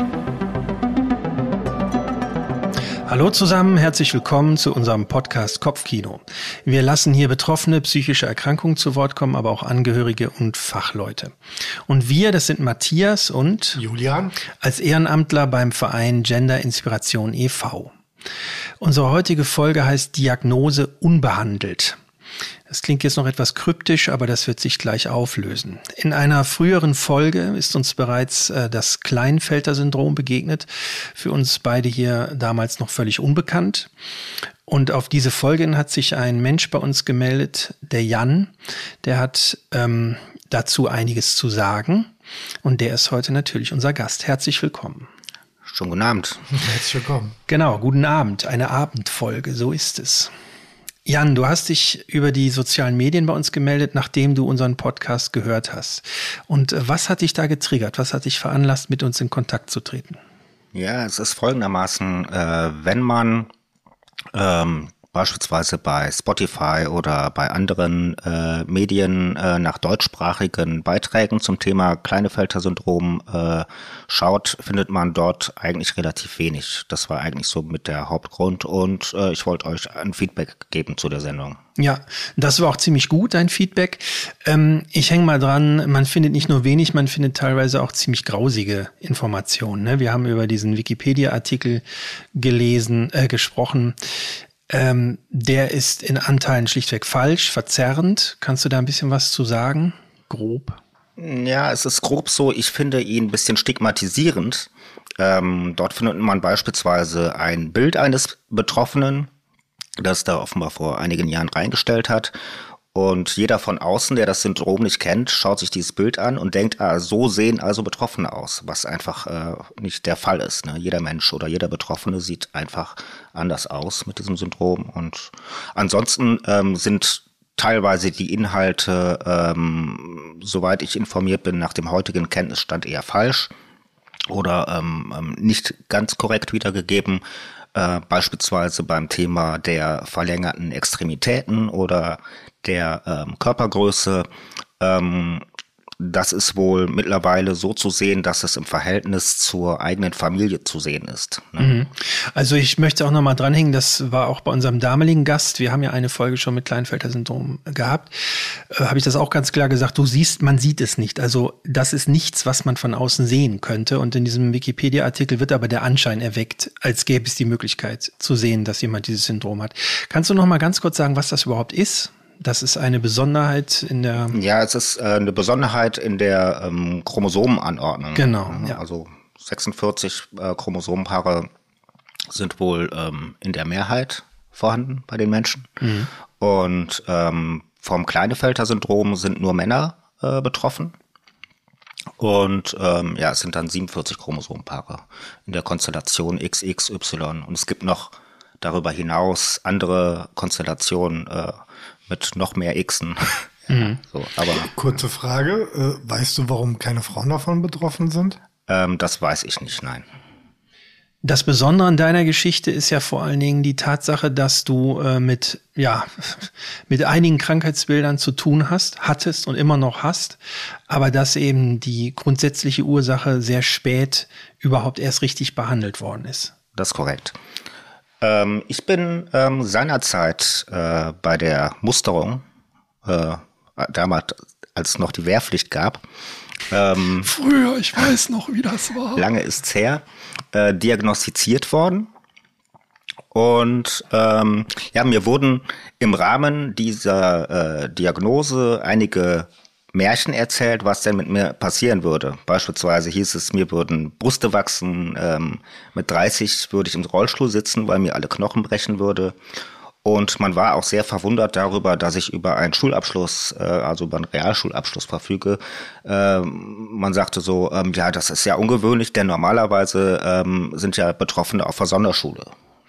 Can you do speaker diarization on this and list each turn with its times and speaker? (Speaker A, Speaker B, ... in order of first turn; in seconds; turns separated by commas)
Speaker A: 3.0-11.3, Speaker A: 11.9-13.8, Speaker B: 13.8-14.3, Speaker A: 14.6-17.9, Speaker A: 18.8-22.0, Speaker A: 22.7-33.9, Speaker A: 34.7-42.1, Speaker A: 42.6-45.1, Speaker C: 45.7-46.5, Speaker B: 46.5-47.4, Speaker A: 47.5-50.3, Speaker A: 51.1-60.2, Speaker C: 60.7-63.5, Speaker C: 64.3-81.6, Speaker A: 81.8-91.8, Speaker A: 92.3-94.0, Speaker A: 94.7-100.8, Speaker C: 101.2-109.3, Speaker C: 110.0-112.3, Speaker C: 112.9-133.5, Speaker C: 134.3-137.2, Speaker C: 137.7-144.2, Speaker C: 144.8-145.4, Speaker C: 146.0-151.8, Speaker A: 151.6-174.4, Speaker C: 174.3-181.5, Speaker A: 178.1-178.8, Speaker C: 182.3-185.7, Speaker A: 185.8-186.1, Speaker C: 186.4-190.9, Speaker C: 192.2-201.5, Speaker C: 202.1-204.7, Speaker A: 203.7-204.0, Speaker B: 204.5-208.4, Speaker C: 208.7-210.1, Speaker A: 211.2-226.5, Speaker C: 226.8-227.4, Speaker C: 228.2-232.4, Speaker C: 233.1-236.0, Speaker C: 236.7-237.3, Speaker A: 237.2-239.2, Speaker C: 239.1-242.1, Speaker C: 243.3-259.4, Speaker C: 260.1-272.5